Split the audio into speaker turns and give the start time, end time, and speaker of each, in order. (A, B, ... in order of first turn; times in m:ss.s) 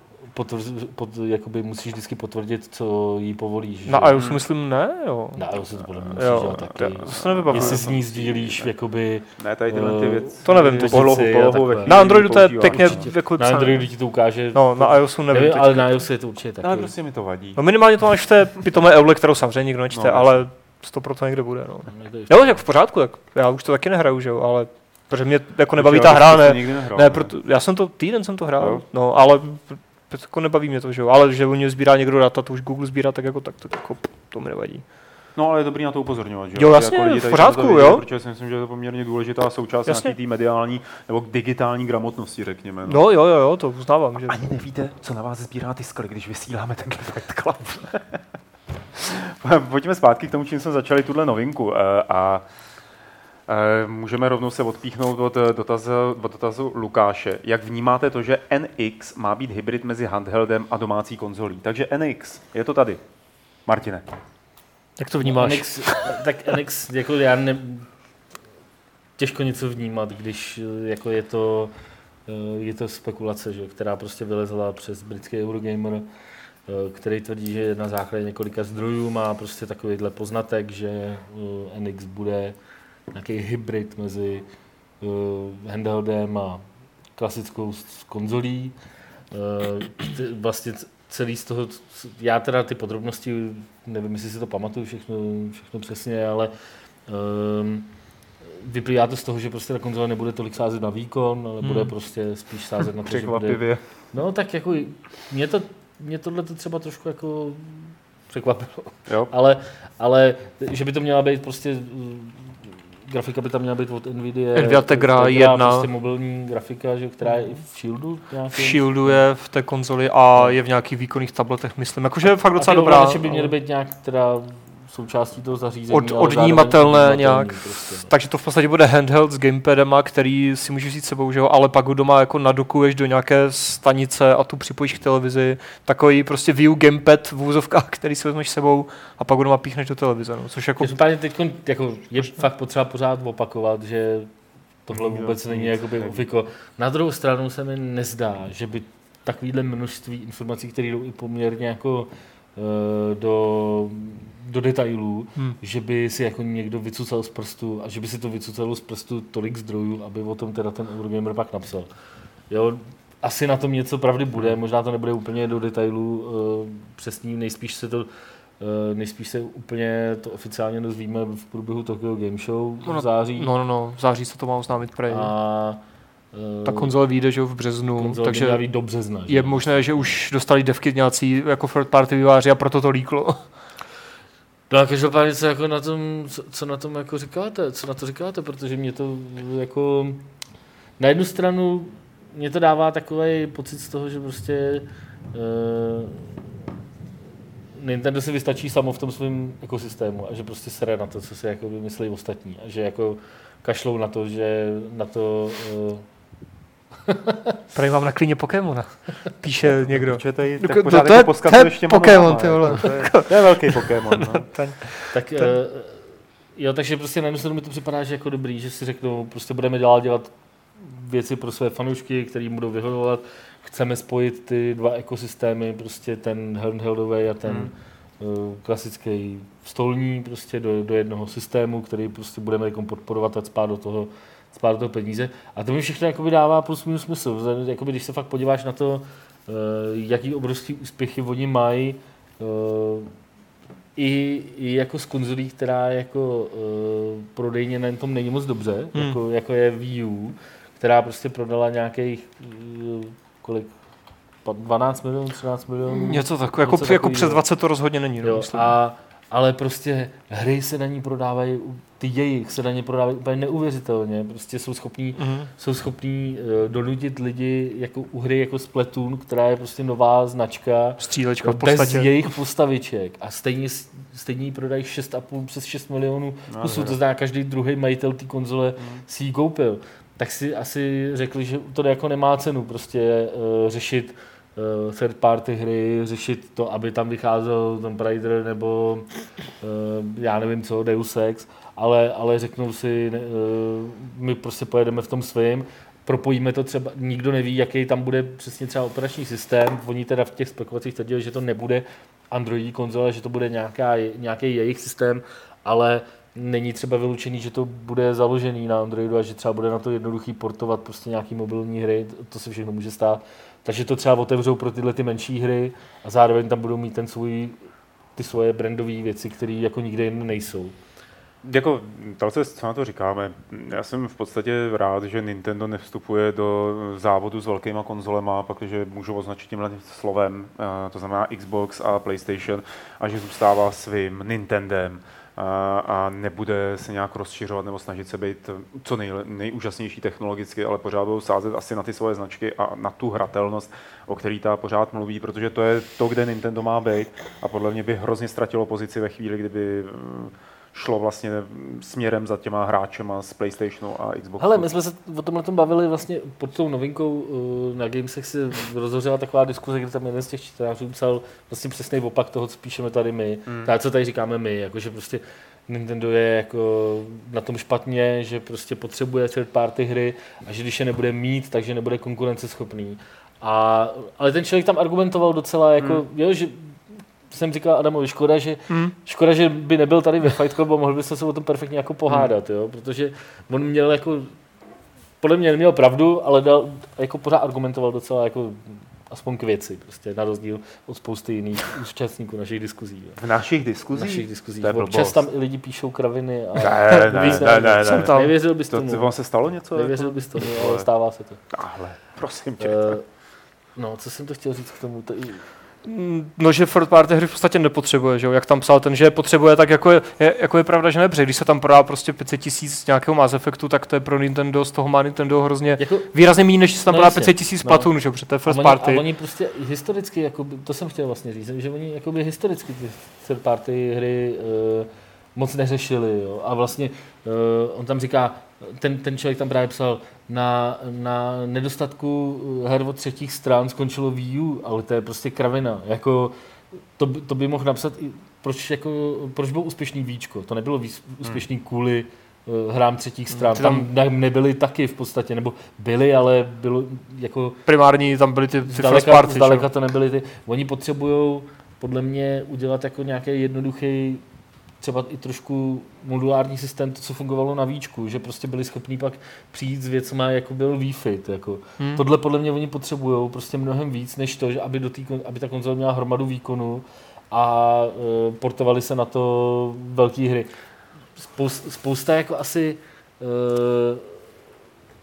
0:00.3-0:04.2 A
0:03.9-0:05.5 B
0:04.1-0:04.4 C
0:05.4-0:16.9 A
0:06.1-0:07.9 B
0:06.2-0:08.7 C
0:09.4-0:13.1 C
0:10.4-0:11.2 B
0:11.8-0:13.9 B
0:14.5-0:16.0 B
0:16.6-0:17.6 C
0:17.6-0:34.8 B
0:19.9-0:20.4 C
0:21.9-0:22.6 A
0:25.7-0:27.3 C
0:35.4-0:43.0 C
0:36.6-0:38.0 B
0:39.8-0:40.1 B
0:42.8-0:44.4 B
0:44.2-0:48.2 C
0:48.9-0:52.4 C
0:53.5-1:03.0 C
1:03.6-1:04.0 C
1:05.0-1:06.0 B
1:05.2-1:07.9 A
1:09.2-1:11.7 A
1:12.3-1:16.1 A
1:16.7-1:22.6 A
1:23.1-1:24.5 A
1:25.0-1:26.6 A
1:27.1-1:28.8 A
1:29.3-1:36.5 A
1:37.1-1:37.9 A
1:38.4-1:59.2 A
1:41.6-1:41.9 B
1:43.0-1:43.8 C
1:54.6-1:55.9 B
1:58.5-2:03.5 B
2:02.6-2:08.1 A
2:05.9-2:21.0 B
2:20.8-2:24.3 A
2:24.8-2:41.9 A
2:24.9-2:26.2 C
2:42.5-2:48.1 A
2:48.6-2:53.5 A
2:52.8-2:55.3 B
2:55.1-2:55.8 A
2:56.3-2:56.9 A
2:56.6-2:58.6 B
2:58.0-3:00.1 A
2:59.2-3:03.4 B
3:04.7-3:10.2 A
3:11.0-3:16.4 A
3:17.7-3:26.0 A
3:27.1-3:27.6 A
3:27.7-3:35.5 B
3:29.6-3:34.5 C
3:35.1-4:03.1 A
3:47.4-3:47.7 C
4:04.0-4:13.7 A
4:14.4-4:17.4 A
4:15.9-4:18.7 B
4:18.2-5:17.6 A
4:25.2-4:25.5 B
4:31.0-4:32.1 B
4:36.5-4:37.0 C
4:38.8-4:39.0 C
5:18.2-5:20.7 A
5:21.4-5:54.7 C
5:54.4-6:24.4 A
6:03.4-6:03.7 C
6:25.2-6:33.2 A
6:33.2-6:35.2 C
6:33.9-6:39.1 A
6:36.6-6:40.9 C
6:36.9-6:38.3 B
6:39.7-6:41.4 A
6:41.5-6:43.0 C
6:42.6-6:43.1 A
6:43.8-6:45.4 A
6:45.8-6:59.0 B
6:55.8-6:56.1 A
6:56.9-6:57.9 A
6:58.4-7:16.4 A
7:17.0-7:27.6 A
7:23.4-7:23.9 B
7:27.7-7:29.7 B
7:28.6-7:34.2 A
7:34.8-7:50.5 A
7:51.2-7:54.2 A